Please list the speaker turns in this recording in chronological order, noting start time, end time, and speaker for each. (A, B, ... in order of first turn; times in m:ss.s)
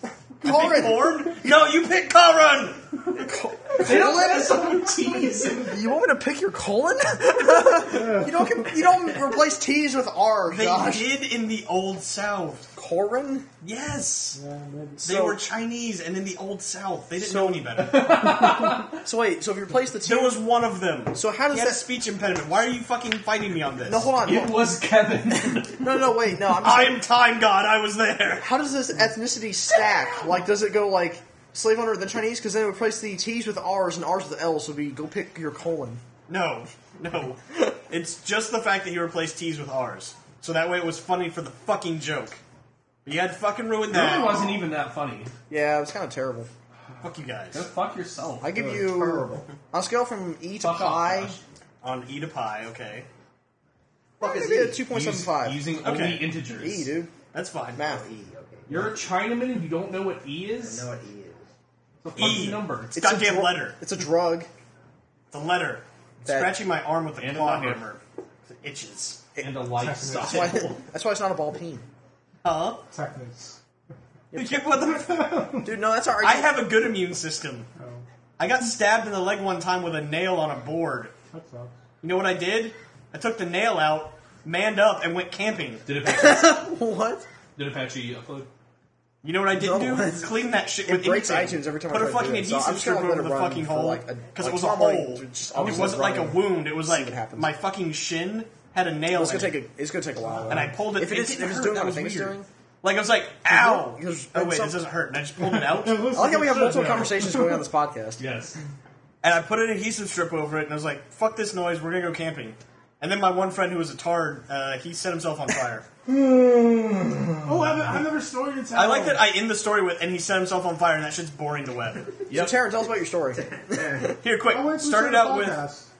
0:00.4-0:01.4 A
0:00.4-0:03.3 B
0:03.1-0:11.1 A
0:03.8-0:05.8 C
0:07.9-0:08.6 D
0:10.5-0:12.7 B
0:12.7-0:13.5 A
0:13.6-0:14.4 B
0:14.3-0:15.1 D
0:15.0-0:15.4 A
0:15.0-0:18.2 B
0:17.2-0:20.4 A
0:17.8-0:19.0 C
0:20.0-0:24.1 B
0:21.1-0:21.8 A
0:23.8-0:24.7 A
0:24.2-0:26.0 C
0:25.4-0:27.1 A
0:26.6-0:28.5 B
0:28.4-0:36.0 A
0:36.3-0:42.4 B
0:43.0-0:44.6 B
0:43.9-0:45.3 C
0:45.5-0:46.5 A
0:47.0-0:47.6 B
0:47.5-0:48.5 C
0:48.4-0:51.3 A
0:48.5-0:49.4 E
0:50.6-0:51.4 C
0:51.8-0:53.1 B
0:54.2-0:54.8 E
0:54.2-0:55.7 A
0:54.9-0:56.9 C
0:55.8-0:56.3 B
0:56.5-0:57.1 A
0:57.3-0:57.8 B
0:57.7-0:58.0 A
0:57.8-0:59.1 E
0:58.7-1:00.9 C
1:00.6-1:01.5 E
1:02.0-1:02.9 C
1:02.1-1:03.8 B
1:02.2-1:04.5 A
1:05.3-1:09.2 B
1:06.2-1:06.6 A
1:07.2-1:07.8 C
1:09.4-1:10.8 C
1:09.7-1:10.6 D
1:10.2-1:11.8 A
1:12.4-1:12.8 B
1:12.9-1:13.6 D
1:14.3-1:14.7 A
1:14.3-1:15.6 B
1:14.9-1:15.7 D
1:15.6-1:16.6 A
1:16.2-1:17.7 B
1:17.8-1:18.0 D
1:18.4-1:21.1 B
1:21.3-1:21.7 D
1:22.0-1:25.8 B
1:25.8-1:26.7 C
1:26.0-1:27.3 A
1:27.6-1:28.5 C
1:29.2-1:39.6 B
1:29.5-1:37.5 A
1:35.6-1:35.9 C
1:39.1-1:42.5 A
1:40.2-1:40.7 D
1:40.5-1:46.3 B
1:43.4-1:44.8 A
1:45.5-1:47.6 D
1:46.1-1:48.2 A
1:48.2-1:48.6 C
1:49.2-1:55.8 B
1:56.0-1:57.8 A
1:57.4-1:59.3 D
1:58.7-2:02.1 B
2:02.3-2:02.6 C
2:02.3-2:04.1 A
2:03.3-2:04.2 E
2:04.2-2:05.6 B
2:04.5-2:05.9 D